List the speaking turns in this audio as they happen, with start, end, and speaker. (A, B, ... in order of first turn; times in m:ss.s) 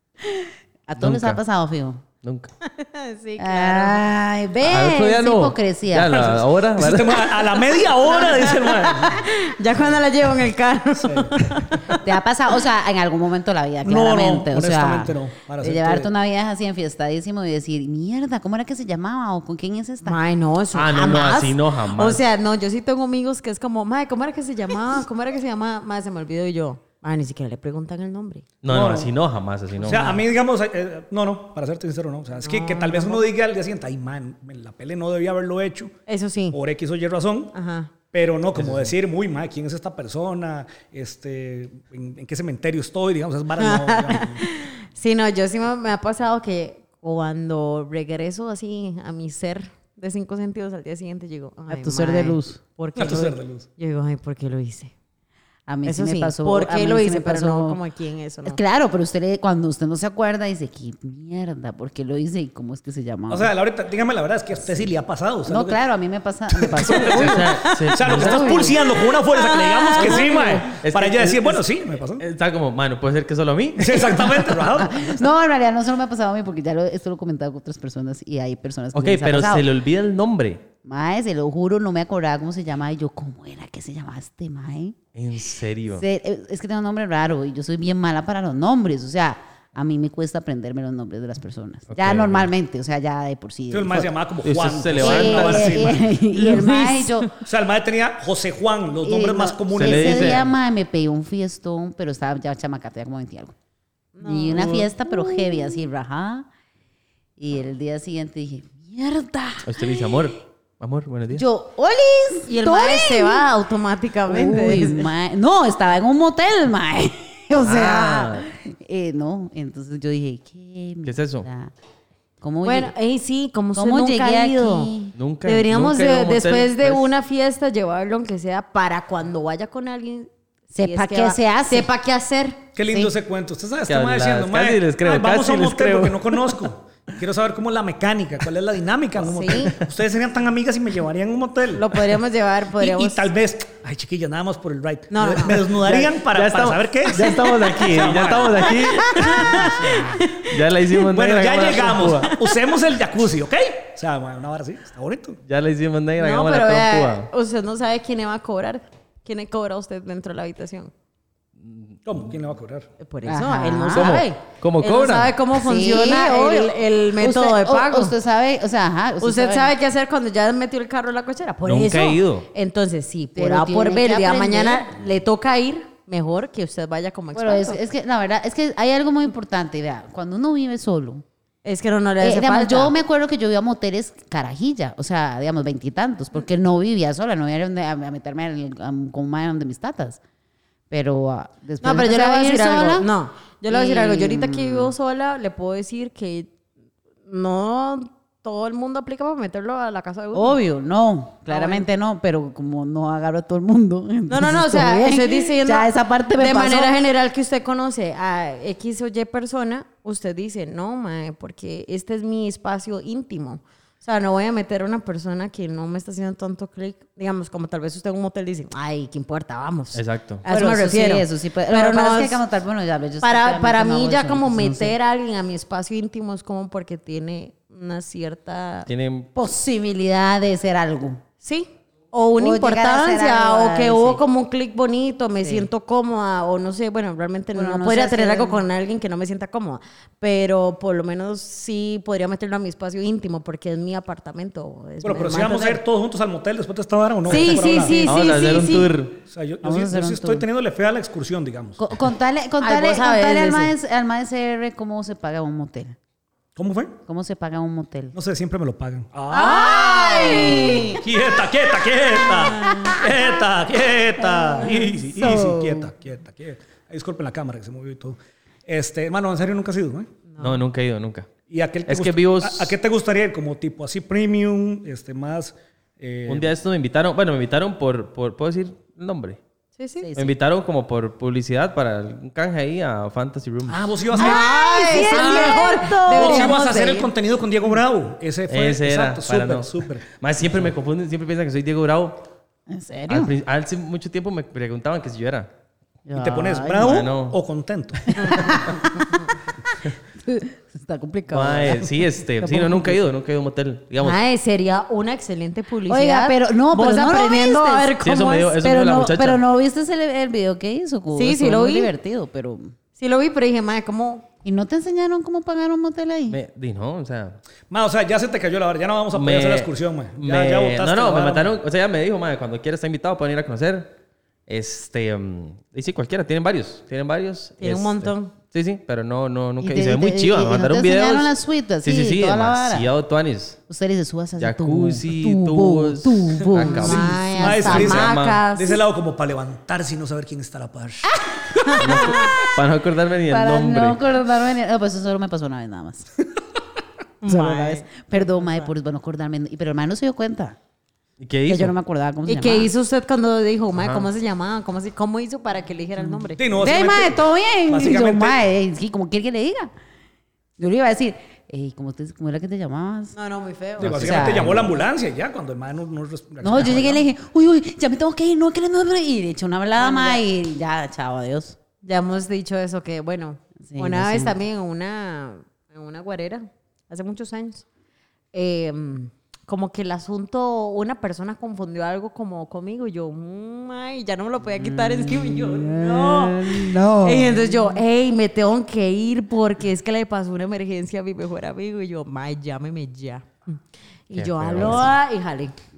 0:00.2-0:02.0 A
0:01.0-0:01.4 B
0:02.2-0:02.5 B
0:02.6-0:04.0 C
0:03.4-0:06.4 A
0:04.6-0:07.2 B
0:06.8-0:09.3 D
0:07.1-0:12.0 C
0:11.0-0:11.8 D
0:12.0-0:20.2 A
0:13.8-0:16.1 D
0:20.0-0:28.5 C
0:20.7-0:22.2 B
0:28.6-0:30.2 B
0:28.7-0:29.1 D
0:29.8-0:36.0 D
0:32.4-0:33.2 C
0:36.1-0:36.6 C
0:36.5-0:37.6 D
0:37.5-0:37.9 C
0:38.1-0:44.4 D
0:38.6-0:38.9 B
0:43.6-0:54.9 C
0:51.7-0:52.6 A
0:53.0-0:53.7 D
0:55.7-0:57.8 A
0:55.9-0:58.6 C
0:58.4-1:03.5 A
1:03.3-1:05.8 D
1:05.5-1:08.8 A
1:06.5-1:12.2 D
1:07.1-1:08.6 B
1:09.0-1:10.6 C
1:10.0-1:10.2 B
1:10.2-1:10.6 A
1:10.8-1:11.6 B
1:12.2-1:14.2 B
1:13.8-1:15.0 D
1:14.4-1:19.7 A
1:19.0-1:20.6 B
1:20.8-1:25.0 A
1:25.2-1:26.0 B
1:26.0-1:34.1 A
1:31.9-1:32.5 B
1:33.7-1:36.2 D
1:34.4-1:36.0 B
1:35.0-1:37.3 A
1:36.4-1:37.2 C
1:37.3-1:40.5 D
1:39.0-1:43.5 A
1:39.7-1:40.4 B
1:44.2-1:45.5 C
1:44.2-1:46.5 A
1:47.4-1:49.8 A
1:49.6-1:51.4 B
1:51.3-1:53.5 A
1:52.5-1:55.1 C
1:54.3-2:01.7 A
1:57.6-1:58.5 B
2:01.0-2:01.5 B
2:02.4-2:02.9 A
2:02.6-2:04.9 C
2:03.8-2:05.1 A
2:05.2-2:07.1 B
2:05.4-2:10.3 C
2:10.7-2:11.9 A
2:10.8-2:12.6 C
2:12.8-2:22.2 D
2:12.9-2:13.1 A
2:13.9-2:16.7 B
2:19.2-2:19.8 C
2:21.7-2:23.3 C
2:22.8-2:30.2 D
2:25.1-2:26.0 C
2:26.2-2:29.8 B
2:28.8-2:30.6 C
2:30.4-2:32.4 B
2:31.1-2:35.4 D
2:35.5-2:37.3 B
2:36.2-2:40.9 C
2:41.6-2:42.0 B
2:42.1-2:42.9 D
2:43.0-2:48.1 C
2:43.2-2:44.1 A
2:43.9-2:45.4 B
2:45.6-2:49.7 A
2:49.2-2:57.8 C
2:51.7-2:52.5 B
2:53.4-2:54.9 A
2:57.4-3:01.2 A
3:01.6-3:02.9 C
3:02.2-3:10.2 A
3:10.9-3:13.1 A
3:11.8-3:16.5 C
3:13.7-3:14.9 A
3:17.3-3:20.6 C
3:20.3-3:27.0 A
3:21.5-3:21.9 C
3:24.3-3:42.4 C
3:39.9-3:40.4 B
3:40.5-3:45.0 A
3:43.2-3:48.9 C
3:48.9-3:49.3 B
3:49.4-3:51.2 A
3:51.4-4:05.8 C
3:52.4-3:54.2 A
3:55.4-3:55.7 A
3:57.6-3:58.6 A
4:05.0-4:08.3 D
4:07.3-4:08.9 C
4:07.9-4:09.2 B
4:09.2-4:11.9 D
4:09.6-4:10.5 A
4:11.8-4:16.0 A
4:12.6-4:13.7 C
4:16.6-4:17.0 D
4:17.1-4:18.2 A
4:18.1-4:30.1 D
4:19.3-4:21.0 A
4:19.4-4:21.0 C
4:22.4-4:23.0 C
4:24.4-4:25.9 A
4:30.3-4:30.6 C
4:30.4-4:31.3 B
4:31.5-4:36.5 D
4:31.9-4:32.7 B
4:36.3-4:39.4 B
4:39.8-4:40.1 C
4:40.0-4:40.4 A
4:40.2-4:43.9 B
4:43.7-4:50.0 D
4:44.1-4:46.7 A
4:44.2-4:47.1 C
4:48.5-4:52.3 B
4:52.7-4:53.3 A
4:53.1-4:55.5 B
4:56.1-4:57.0 A
4:56.2-4:58.0 D
4:56.8-4:57.4 B
4:58.2-4:59.0 A
4:58.2-4:59.2 C
4:59.7-5:03.0 A
5:01.3-5:04.2 B
5:04.0-5:08.5 C
5:05.9-5:08.0 A
5:08.0-5:09.4 B
5:08.6-5:12.7 A
5:11.1-5:11.9 C
5:13.0-5:14.3 C
5:14.4-5:16.4 A
5:16.3-5:17.4 B
5:17.7-5:21.6 D
5:19.1-5:23.9 B
5:24.5-5:33.6 B
5:27.6-5:28.3 C
5:29.6-5:32.9 A
5:33.7-5:37.9 A
5:34.4-5:38.4 B
5:36.7-5:38.8 C
5:37.4-5:42.3 D
5:41.6-5:42.3 C
5:41.8-5:44.0 B
5:43.3-5:46.1 A
5:47.2-5:48.7 C
5:47.2-5:50.6 A
5:51.2-5:51.7 B
5:51.5-5:52.7 A
5:52.3-5:56.4 C
5:53.8-5:54.1 B
5:56.0-5:59.7 A
5:56.4-5:58.4 D
6:00.6-6:03.2 A
6:03.2-6:04.2 C
6:03.8-6:04.7 B
6:03.8-6:07.0 D
6:03.9-6:04.6 A
6:06.4-6:11.6 A
6:09.8-6:10.2 C
6:11.8-6:17.6 C
6:13.6-6:14.4 A
6:18.3-6:35.5 C
6:24.6-6:27.8 A
6:34.1-6:35.0 B